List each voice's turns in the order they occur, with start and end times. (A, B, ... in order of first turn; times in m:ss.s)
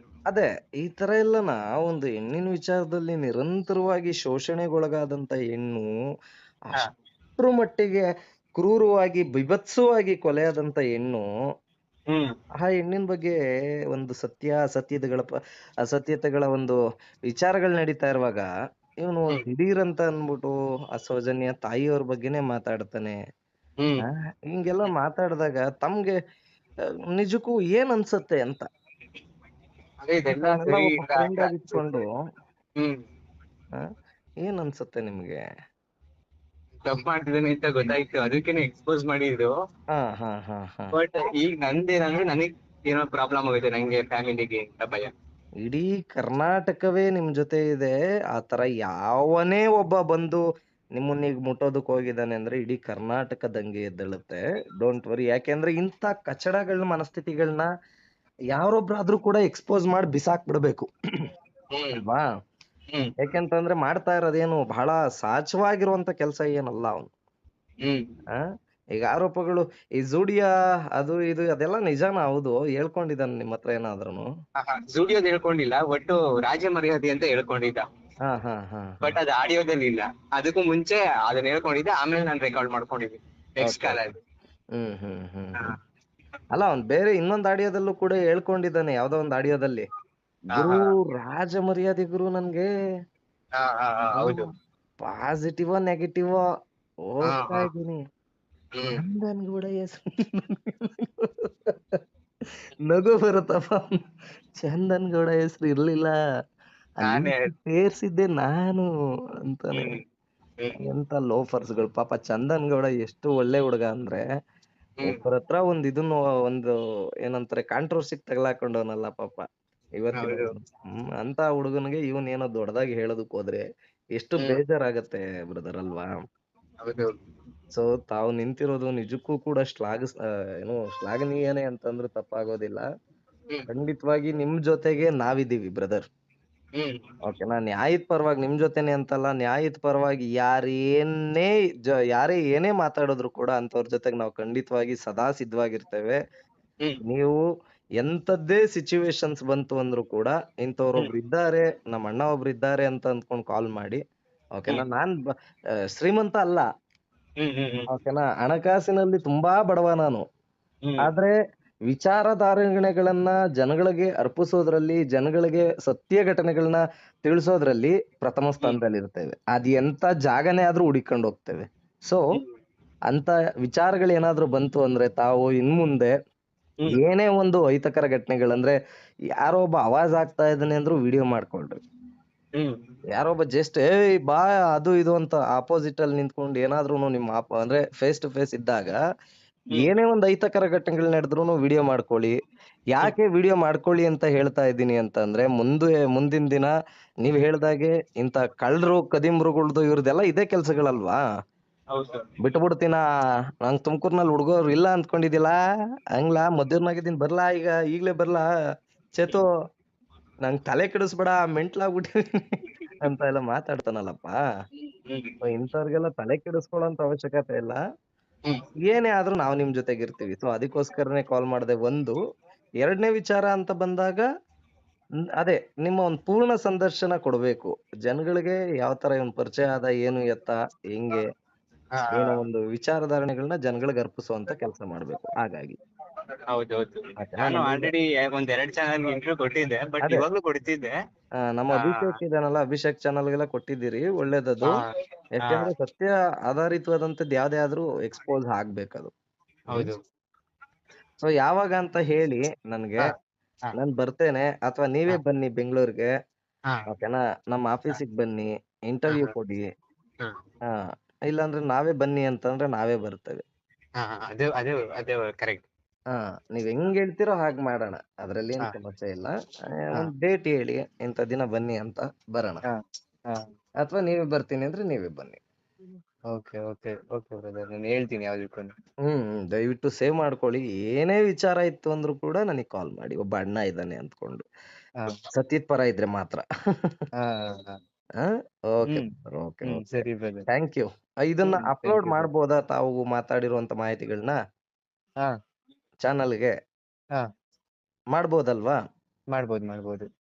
0:00.3-0:05.9 A
0:07.4-0:08.0 A
0:08.6-0:11.2 A
0:12.6-0:13.4 A
0:13.9-0:15.3 A
0:15.8-0:16.8 A
0:17.3-0:18.5 A
0:19.0-0:23.2 A
0:24.1-0:26.2 A
0:27.1-0:28.7 A
0:30.0-0:32.0 B
0:30.3-0:32.2 A
0:34.4-0:35.4 A
0:36.8-0:39.5 B
0:39.9-0:40.9 A
0:40.9-0:45.1 B
0:45.6-0:50.4 A
0:51.0-0:57.7 A
0:58.5-1:00.9 A
1:01.8-1:02.0 B
1:01.9-1:02.2 A
1:03.2-1:07.1 A
1:09.0-1:14.3 A
1:14.6-1:17.8 B
1:18.3-1:19.2 A
1:19.0-1:24.2 B
1:23.6-1:24.0 A
1:24.8-1:25.6 A
1:26.5-1:29.8 A
1:30.5-1:32.7 A
1:30.5-1:30.9 B
1:33.6-1:34.5 B
1:34.2-1:34.5 A
1:35.0-1:36.4 A
1:37.1-1:38.0 A
1:37.3-1:37.7 B
1:38.8-1:39.0 B
1:39.0-1:42.0 A
1:42.9-1:43.8 A
1:44.6-1:46.1 A
1:47.0-1:48.9 A
1:47.0-1:47.5 B
1:49.5-1:50.0 A
1:49.7-1:50.0 B
1:50.8-1:54.2 A
1:55.0-1:56.7 A
1:57.3-1:59.4 A
2:00.0-2:03.6 A
2:00.2-2:00.5 B
2:04.2-2:06.1 A
2:06.8-2:07.2 B
2:07.8-2:12.8 A
2:13.7-2:16.0 A
2:16.8-2:17.0 B
2:17.2-2:26.2 A
2:27.1-2:27.4 A
2:28.0-2:34.0 A
2:34.6-2:35.1 A
2:36.0-2:36.6 A
2:37.4-2:37.9 B
2:37.9-2:40.2 A
2:41.0-2:41.3 A
2:41.9-2:52.2 A
2:53.1-2:56.1 A
2:56.9-2:58.8 A
2:59.4-3:01.8 A
3:03.2-3:09.0 A
3:09.7-3:12.3 A
3:12.9-3:16.7 A
3:17.2-3:21.2 A
3:21.9-3:22.3 B
3:22.4-3:23.0 A
3:23.6-3:25.6 A
3:26.2-3:28.4 A
3:29.2-3:29.5 A
3:30.4-3:32.1 A
3:33.0-3:34.4 A
3:35.1-3:35.4 B
3:35.4-3:37.8 A
3:38.9-3:42.2 A
3:42.8-3:44.2 A
3:45.4-3:51.2 A
3:52.0-3:52.4 B
3:52.1-3:55.8 A
3:56.5-4:00.9 B
3:57.2-3:57.9 A
4:01.4-4:04.8 A
4:01.8-4:02.2 B
4:05.4-4:09.1 A
4:05.4-4:05.7 B
4:09.7-4:10.0 B
4:11.2-4:13.1 A
4:13.7-4:16.1 A
4:16.9-4:19.6 A
4:20.7-4:23.4 A
4:24.0-4:25.7 B
4:26.1-4:32.6 A
4:33.8-4:35.4 A
4:36.3-4:38.7 B
4:39.1-4:44.4 A
4:45.3-4:46.9 A
4:47.2-4:47.8 B
4:48.2-4:54.4 A
4:49.6-4:50.5 B
4:51.4-4:52.3 B
4:56.0-4:56.5 A
4:58.1-4:58.8 A
4:59.3-5:00.1 B